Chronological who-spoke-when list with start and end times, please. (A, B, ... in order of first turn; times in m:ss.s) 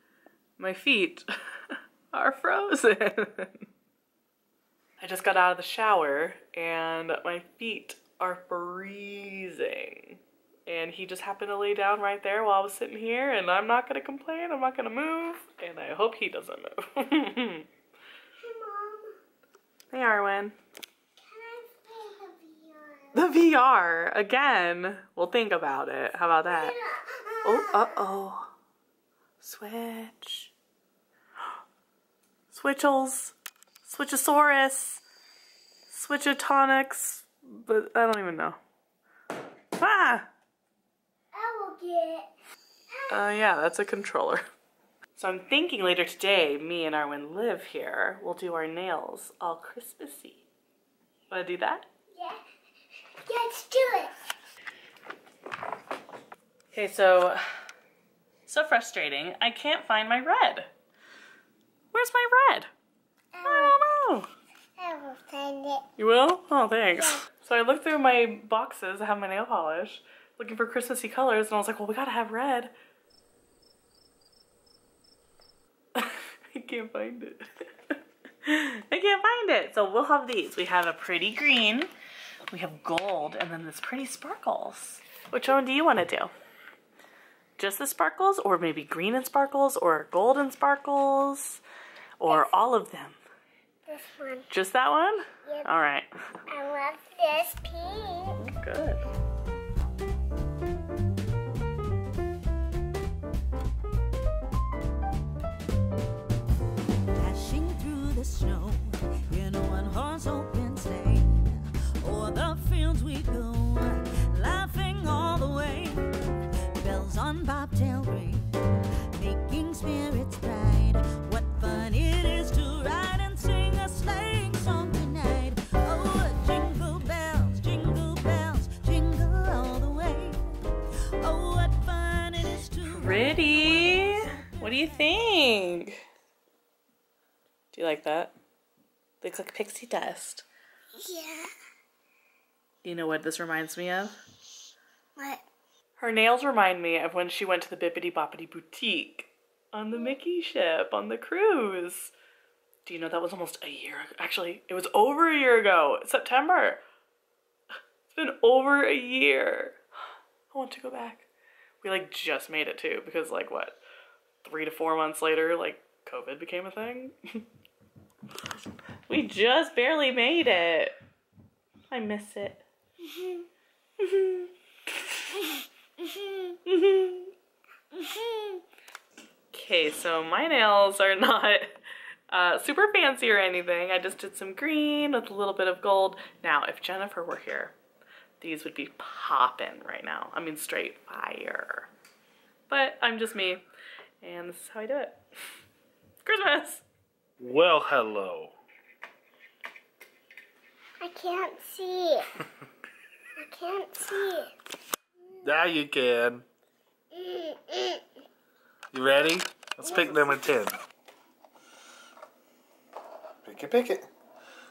0:00.6-0:03.7 A
0:05.0-0:17.7 A
0:18.4-0:19.2 B
0:19.9-0:20.6 A
0:21.2-0:23.2 B
0:23.1-0:26.7 A
0:26.5-0:27.8 B
0:27.4-0:28.5 A
0:29.4-0:30.5 A
0:32.5-0:35.0 A
0:35.9-0:38.6 A
0:39.8-0:40.3 A
0:41.3-0:42.3 B
0:42.9-0:43.3 B
0:43.1-0:44.4 A
0:45.1-0:50.4 A
0:51.3-0:51.9 A
0:52.1-0:52.4 B
0:53.2-0:54.1 B
0:56.7-0:57.4 A
0:58.4-1:00.7 A
1:01.9-1:02.7 A
1:03.3-1:03.8 B
1:03.4-1:04.3 A
1:04.8-1:05.8 B
1:06.0-1:12.7 A
1:15.9-1:21.9 A
1:22.5-1:26.3 A
1:27.6-1:31.6 A
1:32.2-1:33.2 A
1:33.9-1:34.5 B
1:34.5-1:36.1 A
1:36.5-1:38.4 B
1:38.4-1:39.0 A
1:47.2-1:56.1 C
1:56.8-1:58.5 C
1:59.2-2:10.4 C
2:11.2-2:14.2 C
2:12.8-2:16.0 A
2:17.7-2:18.3 A
2:19.2-2:20.4 A
2:21.0-2:21.5 B
2:22.8-2:24.2 A
2:25.2-2:25.4 B
2:26.0-2:32.1 A
2:32.8-2:36.8 A
2:38.1-2:39.8 A
2:40.5-2:41.2 A
2:41.8-2:43.8 A
2:44.4-2:47.4 A
2:49.1-2:51.0 A
2:51.9-2:52.6 A
2:54.0-2:54.5 A
2:55.1-2:55.5 A
2:56.4-2:57.3 A
2:58.1-2:58.6 B
2:59.5-3:01.7 A
3:02.3-3:07.7 A
3:08.4-3:11.9 A
3:12.7-3:13.6 A
3:14.2-3:15.2 A
3:16.2-3:16.8 A
3:17.4-3:18.5 D
3:21.0-3:22.3 B
3:23.4-3:24.5 B
3:25.4-3:26.4 D
3:27.1-3:28.0 B
3:28.9-3:30.8 D
3:33.4-3:34.1 D